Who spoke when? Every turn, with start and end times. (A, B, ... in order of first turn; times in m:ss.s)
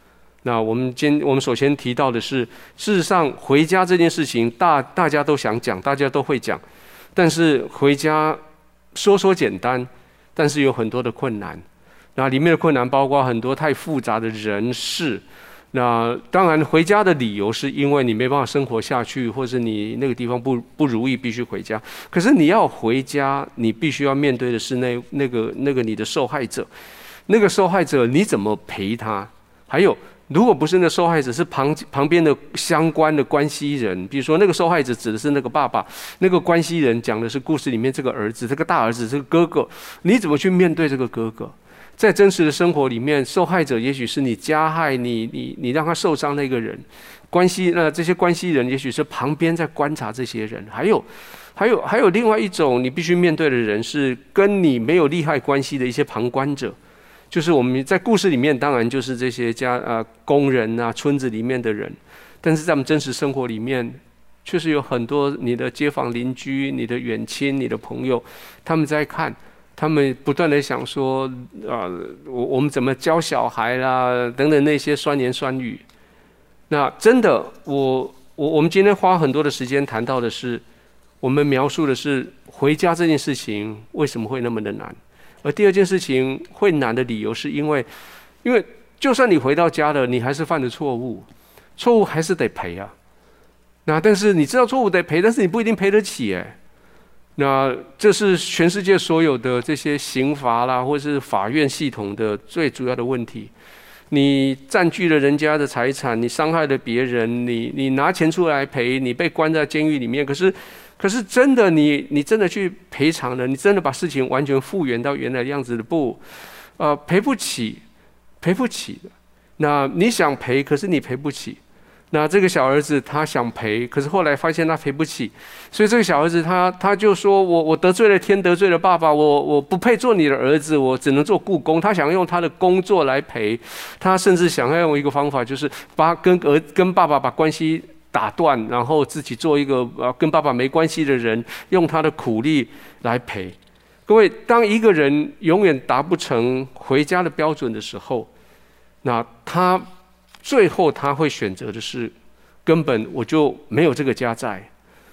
0:00.4-0:06.6 A
0:07.1-0:08.4 A
0:09.0-0:11.6 A
0:12.2-0:26.7 A
0:27.3-0:56.8 A
0:57.3-1:15.8 A
1:16.7-1:20.6 A
1:21.2-1:27.9 A
1:28.4-1:31.3 A
1:31.8-1:32.9 A
1:33.9-1:36.6 A
1:37.4-1:43.5 A
1:44.1-1:56.2 A
1:56.8-1:57.8 A
1:58.4-2:01.6 A
2:02.1-2:23.6 A
2:24.1-2:28.3 A
2:29.0-2:29.9 A
2:30.4-2:32.1 A
2:32.6-2:34.7 A